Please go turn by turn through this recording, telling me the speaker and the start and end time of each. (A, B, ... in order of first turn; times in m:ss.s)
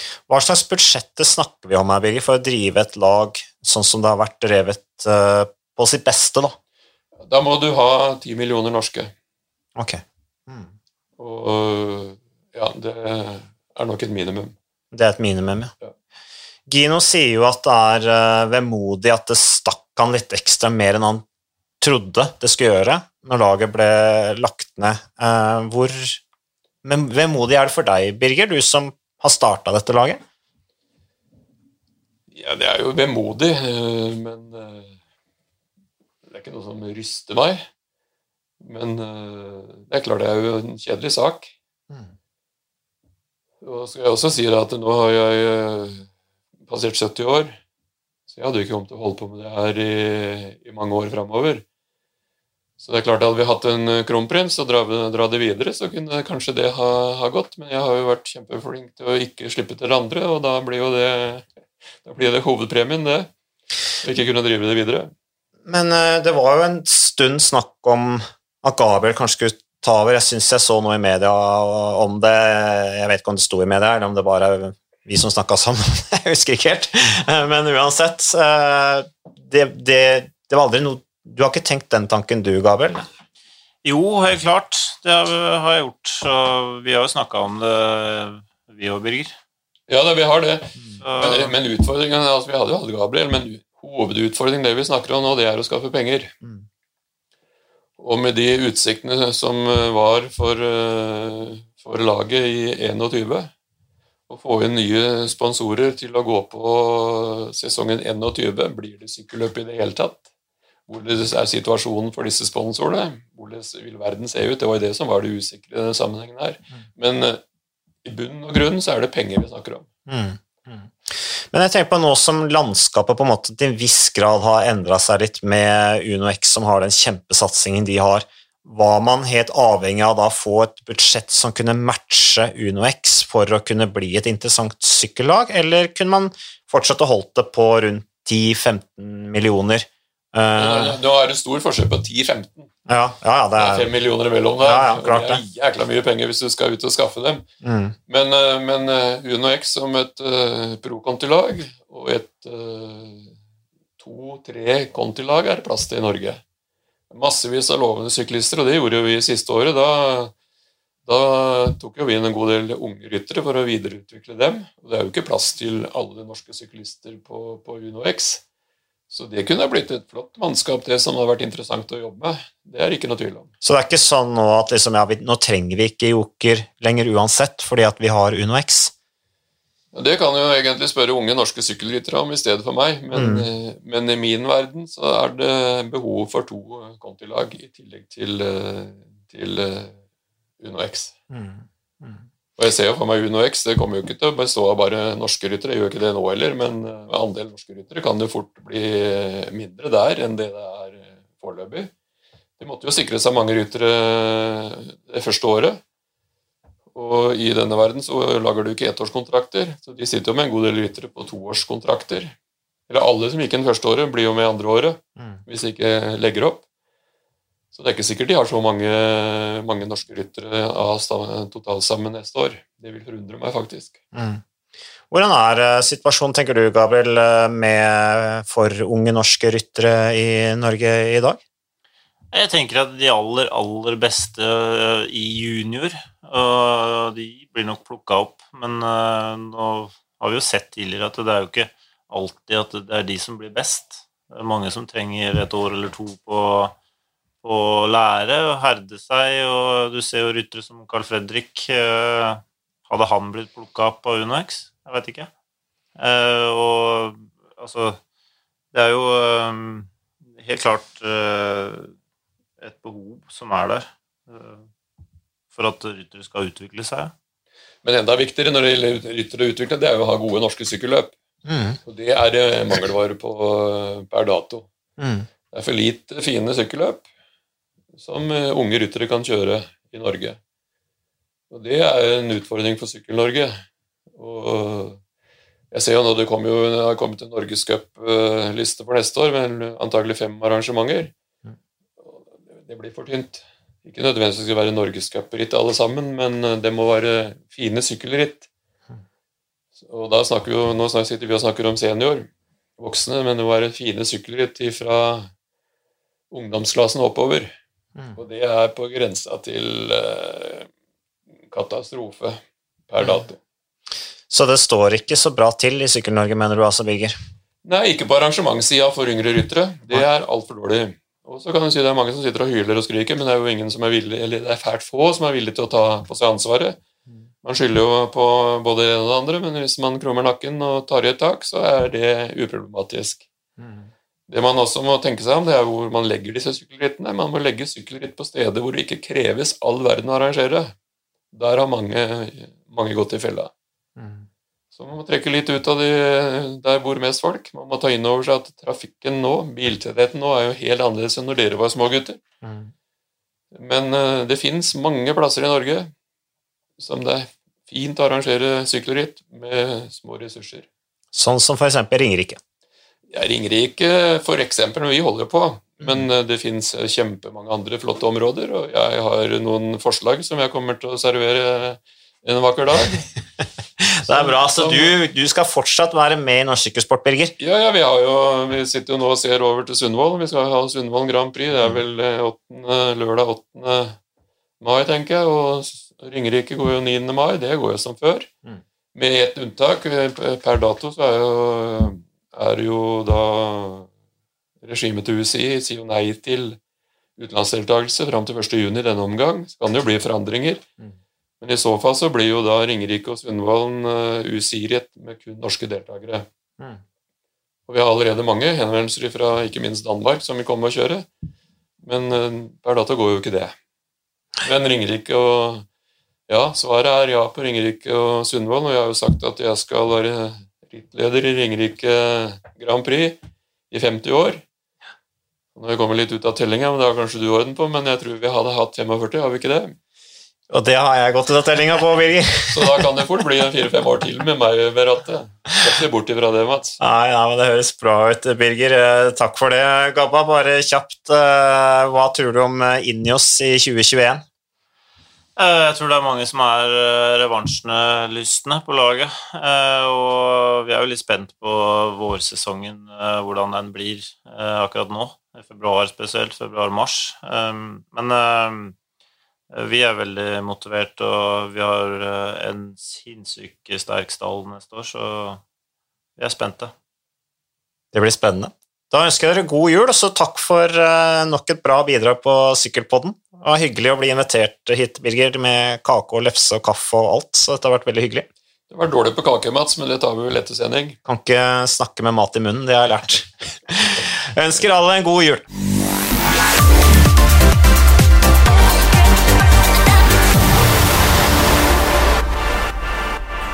0:00.3-0:06.6 A
0:07.2-0:09.1 B
0:09.8-0:10.7 A
0:11.2-0:14.6 B
0:14.9-0:15.7 A
0:16.7-0:21.2 A
0:21.8-0:26.2 A
0:26.8-0:30.2 A
0:32.3-0:35.0 B
0:36.3-0:37.7 B
0:38.6-0:41.5 B
0:43.6-0:46.1 B
0:46.7-0:47.6 B
0:48.3-0:51.6 B
0:52.8-1:01.5 B
1:02.0-1:03.3 B
1:04.0-1:05.1 B
1:05.7-1:23.1 A
1:23.8-1:29.4 C
1:29.9-1:36.4 B
1:31.0-1:31.6 C
1:38.0-1:43.5 B
1:44.3-1:50.2 B
1:50.9-1:57.4 B
1:58.0-1:59.9 B
2:00.1-2:21.0 A
2:20.6-2:22.7 B
2:22.9-2:23.9 A
2:23.6-2:27.5 B
2:24.6-2:25.4 A
2:27.6-2:28.0 A
2:28.1-2:33.4 B
2:34.0-2:36.4 B
2:37.1-2:40.3 B
2:41.1-2:48.4 B
2:49.1-2:53.5 B
2:53.6-2:58.9 A
2:59.9-3:10.0 B
3:03.1-3:03.5 A
3:10.6-3:11.2 B
3:11.3-3:12.2 A
3:12.6-3:21.9 B
3:22.6-3:25.8 B
3:26.9-3:32.4 B
3:32.9-3:36.6 B
3:37.7-3:44.0 B
3:44.1-3:44.4 A
3:45.1-3:51.4 A
3:52.3-4:06.7 C
4:07.4-4:15.3 C
4:16.0-4:18.0 C
4:18.7-4:21.9 C
4:22.6-4:24.7 C
4:25.5-4:27.1 C
4:27.8-4:31.1 B
4:31.5-4:31.8 A
4:31.8-4:34.7 B
4:35.0-4:35.3 A
4:35.5-4:37.0 B
4:38.0-4:40.4 B
4:41.5-4:43.6 B
4:44.2-4:45.0 B
4:45.7-4:51.1 B
4:52.0-4:58.5 B
4:59.8-5:05.3 B
5:06.3-5:07.6 B
5:08.2-5:10.7 B
5:11.5-5:13.4 B
5:14.3-5:17.2 A
5:17.6-5:26.8 B
5:27.4-5:33.2 B
5:33.6-5:33.9 A
5:34.3-5:40.7 B
5:41.3-5:43.5 B
5:44.0-5:44.2 A
5:44.8-5:52.2 B
5:52.4-5:52.7 A
5:53.5-5:55.9 B
5:56.8-6:00.7 B
6:01.1-6:02.4 A
6:03.1-6:13.1 B
6:05.8-6:06.1 A
6:13.8-6:17.3 A
6:14.0-6:15.0 B
6:17.4-6:24.0 B
6:24.6-6:28.3 B
6:29.0-6:33.9 B
6:34.6-6:36.6 B
6:37.2-6:40.6 B
6:41.4-6:46.3 B
6:47.7-6:51.1 B
6:51.8-6:53.6 B
6:54.4-6:55.6 B
6:56.3-7:03.2 B
7:03.7-7:04.4 B
7:05.6-7:09.8 B
7:10.5-7:12.9 A
7:12.5-7:16.8 B
7:16.8-7:24.2 A
7:25.4-7:38.8 C
7:39.5-7:45.4 C
7:46.2-7:46.7 C
7:47.9-7:58.3 A
7:58.7-8:01.0 B
8:01.0-8:05.5 A